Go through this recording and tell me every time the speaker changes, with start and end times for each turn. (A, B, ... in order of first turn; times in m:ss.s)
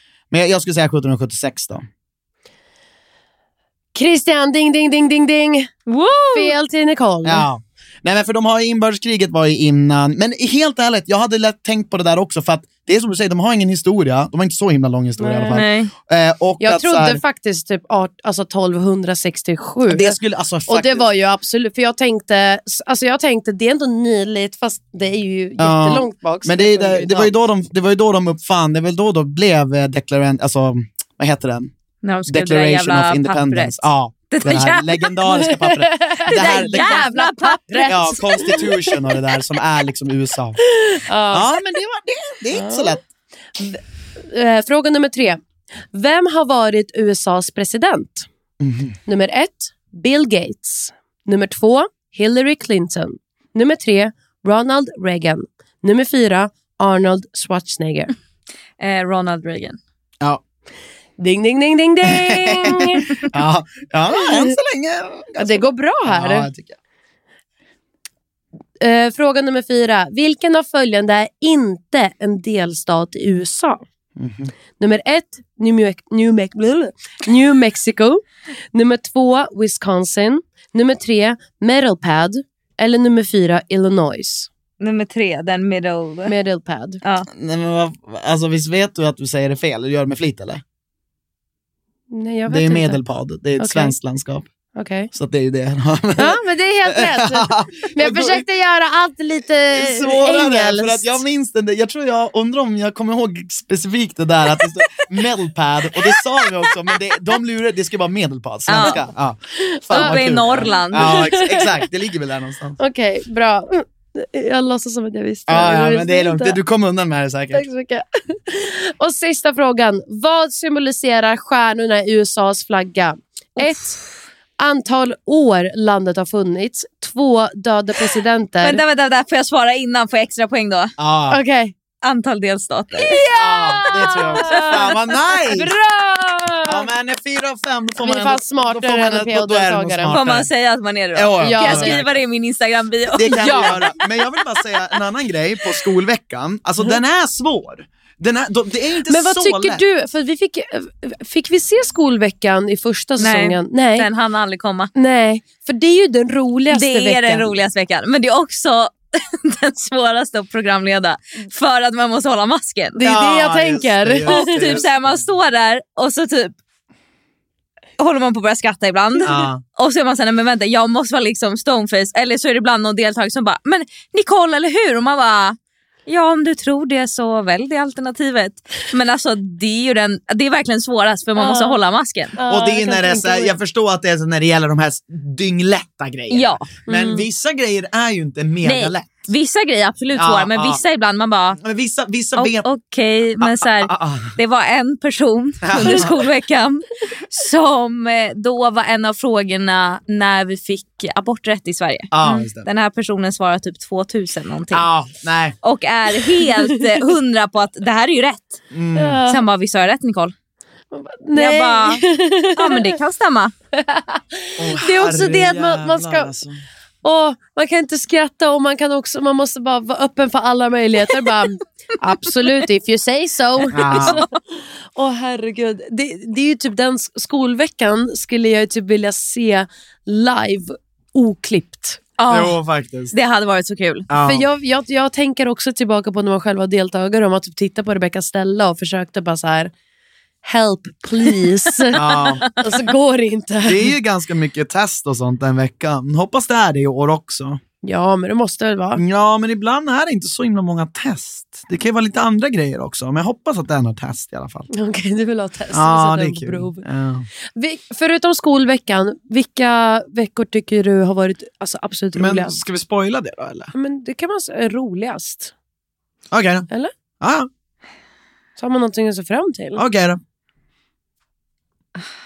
0:00.3-0:01.8 A
0:04.0-0:05.7 B
0:05.9-0:06.5 C
0:06.3-0:07.5 B
0:07.2-0:17.2 A
0:15.2-0:15.6 B
0:15.5-0:15.9 C
0:16.6-0:20.2 B
0:19.9-0:21.1 A
0:20.7-0:27.3 B
0:25.6-0:31.7 A
0:32.0-0:35.2 C
0:32.3-0:37.1 A
0:35.4-0:39.0 B
0:36.3-0:38.2 C
0:37.9-0:40.6 A
0:40.9-0:41.5 B
0:41.3-0:43.0 A
0:42.5-0:43.0 B
0:43.6-0:45.4 B
0:45.9-0:48.3 B
0:48.6-0:49.0 A
0:49.1-0:58.1 B
0:58.8-0:59.8 C
1:01.2-1:03.2 B
1:02.1-1:06.8 A
1:04.2-1:04.6 B
1:05.4-1:06.5 B
1:08.8-1:13.8 B
1:14.2-1:14.5 A
1:14.8-1:18.2 B
1:18.7-1:24.5 B
1:24.8-1:26.3 C
1:26.3-1:27.0 B
1:27.3-1:30.6 A
1:32.1-1:33.0 B
1:32.5-1:34.5 A
1:33.6-1:33.9 B
1:34.7-1:35.1 B
1:35.1-1:38.4 A
1:36.2-1:41.2 B
1:39.7-1:52.8 A
1:48.7-1:49.0 C
1:49.9-1:51.8 B
1:49.9-1:51.4 C
1:52.8-1:56.6 B
1:55.5-1:57.7 A
1:57.5-2:04.0 B
2:03.6-2:04.0 C
2:04.6-2:08.8 B
2:08.6-2:10.9 C
2:11.0-2:11.4 A
2:11.3-2:11.7 B
2:12.0-2:13.2 C
2:13.0-2:16.8 B
2:13.3-2:15.7 A
2:14.5-2:14.8 C
2:16.6-2:20.5 A
2:18.0-2:20.1 B
2:20.1-2:23.9 C
2:21.2-2:22.2 A
2:21.4-2:22.0 B
2:23.1-2:29.8 A
2:23.3-2:23.8 B
2:29.1-2:34.1 B
2:33.2-2:34.9 C
2:35.0-2:37.5 B
2:36.7-2:43.0 C
2:43.0-2:44.8 B
2:43.0-2:45.2 A
2:44.3-2:46.5 C
2:48.0-2:55.6 C
2:49.2-2:49.6 A
2:56.1-3:02.4 C
3:01.4-3:01.8 B
3:02.4-3:03.5 B
3:02.5-3:09.3 A
3:06.3-3:06.7 C
3:06.9-3:07.3 B
3:08.6-3:11.6 C
3:10.2-3:10.8 A
3:11.6-3:12.7 A
3:12.4-3:24.9 C
3:13.4-3:14.4 A
3:15.6-3:16.2 A
3:22.1-3:22.7 A
3:24.7-3:25.6 A
3:25.6-3:28.6 C
3:26.3-3:27.0 B
3:28.7-3:29.2 A
3:29.0-3:29.4 B
3:29.3-3:30.3 C
3:30.9-3:33.0 B
3:31.4-3:32.0 C
3:32.6-3:33.5 C
3:33.7-3:36.3 B
3:34.6-3:36.6 A
3:37.0-3:44.4 B
3:43.7-3:44.2 A
3:44.0-3:44.2 C
3:45.0-3:52.0 B
3:52.2-3:52.6 C
3:52.3-3:53.1 A
3:53.1-3:54.1 C
3:54.1-3:54.4 A
3:54.2-3:59.7 B
4:00.4-4:03.9 B
4:01.9-4:02.5 A
4:01.9-4:02.5 C
4:03.6-4:07.6 A
4:07.8-4:09.0 B
4:09.0-4:14.7 A
4:14.7-4:16.8 B
4:15.7-4:17.3 A
4:17.6-4:22.6 B
4:22.1-4:23.7 A
4:23.7-4:25.5 B
4:26.3-4:26.7 A
4:27.2-4:27.5 A
4:28.6-4:29.8 B
4:29.8-4:30.2 A